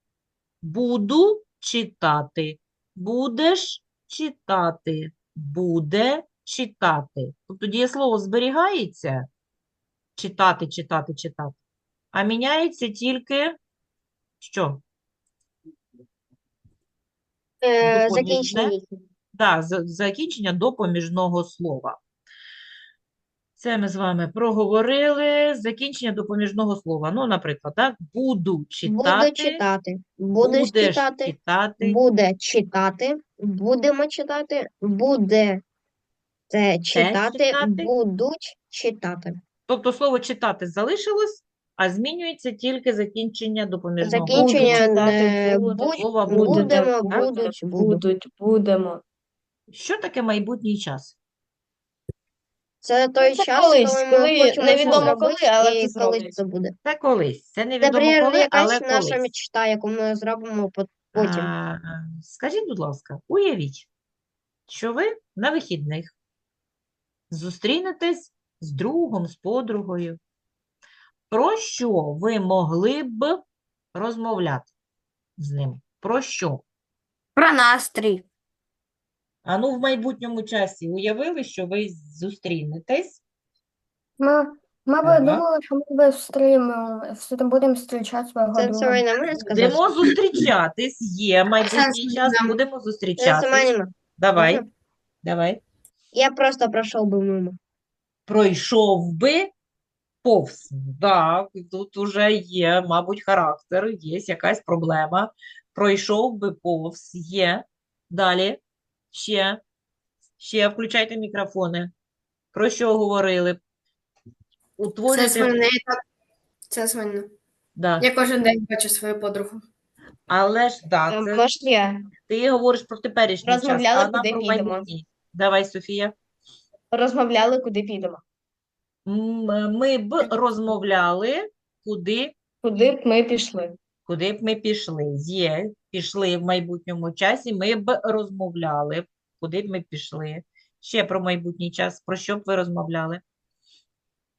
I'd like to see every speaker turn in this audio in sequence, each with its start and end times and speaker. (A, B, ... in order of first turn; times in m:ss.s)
0:00.6-0:09.3 A
0:10.2-0:11.6 A
0:12.1-0:13.6 A
0:14.4-0:14.8 A
0:17.6-0:19.0 B
0:17.8-0:18.8 A
0:19.3-0:22.0 A
0:23.6-0:29.6 A
0:28.8-0:35.6 B
0:30.4-0:32.0 A
0:36.5-0:39.4 B
0:36.9-0:37.9 A
0:39.7-0:45.2 A
0:44.0-0:48.0 B
0:44.3-0:49.0 C
0:46.0-0:47.3 A
0:49.7-0:51.2 A
0:52.8-0:56.7 B
0:53.2-0:56.4 C
0:54.8-0:55.1 A
0:56.8-0:59.3 A
0:57.8-1:01.5 B
1:01.2-1:03.9 A
1:04.7-1:06.1 A
1:07.3-1:10.2 A
1:11.3-1:13.4 A
1:13.9-1:14.7 A
1:15.4-1:16.6 A
1:17.4-1:18.2 D
1:19.4-1:23.2 A
1:24.2-1:29.0 D
1:25.0-1:25.4 A
1:28.5-1:29.9 B
1:29.4-1:34.6 A
1:31.6-1:32.6 E
1:33.2-1:34.6 B
1:35.2-1:35.6 A
1:36.1-1:37.6 B
1:38.3-1:39.5 A
1:40.2-1:48.6 A
1:49.1-1:49.6 A
1:50.4-1:51.9 A
1:52.5-1:53.6 A
1:54.8-1:55.6 A
1:55.1-1:56.0 E
1:56.7-1:57.3 E
1:57.8-1:58.1 A
1:58.0-1:59.7 E
2:00.3-2:01.5 A
2:01.1-2:02.0 C
2:02.3-2:06.1 A
2:03.4-2:04.9 C
2:06.9-2:08.2 C
2:09.1-2:12.3 A
2:12.6-2:13.8 C
2:14.1-2:23.2 A